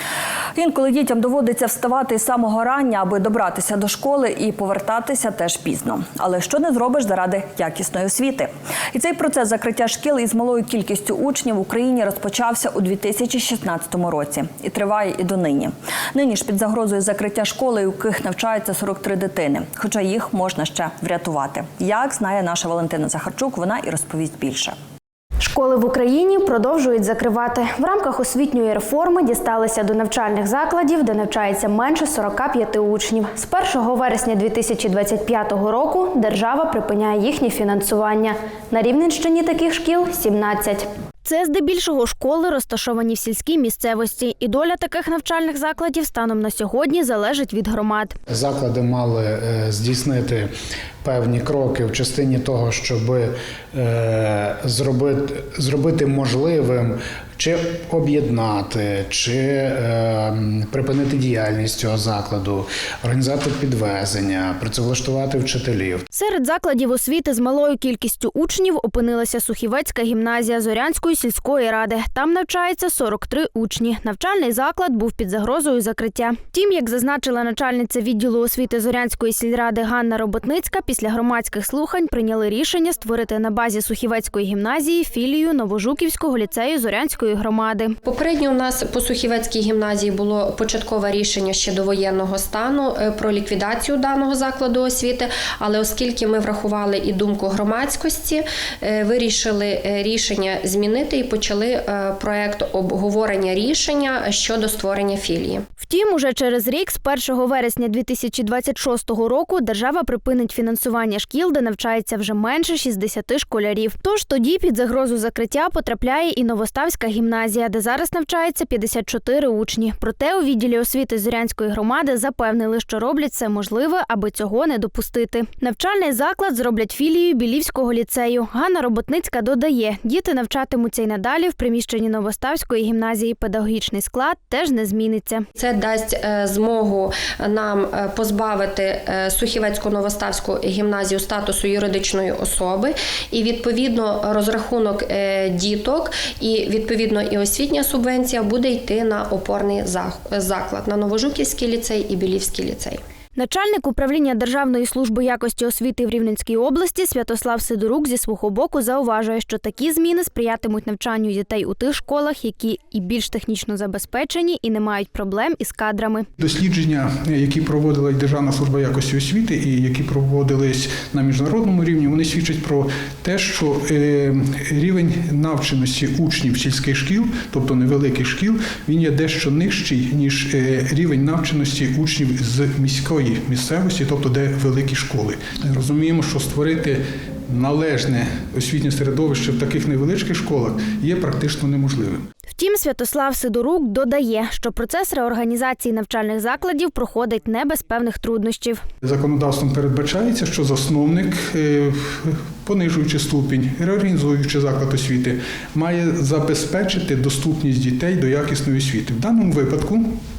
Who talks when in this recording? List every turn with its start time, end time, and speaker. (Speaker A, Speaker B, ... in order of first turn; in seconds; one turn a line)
Speaker A: 0.6-24.8
Speaker B: 25.4-48.1
Speaker C: 48.3-66.0
Speaker B: 66.1-88.0
Speaker D: 88.0-105.6
Speaker B: 105.8-135.4
Speaker D: 135.6-153.0
Speaker B: 153.3-166.3
Speaker E: 166.4-192.3
Speaker B: 192.5-198.8
Speaker E: 199.0-210.2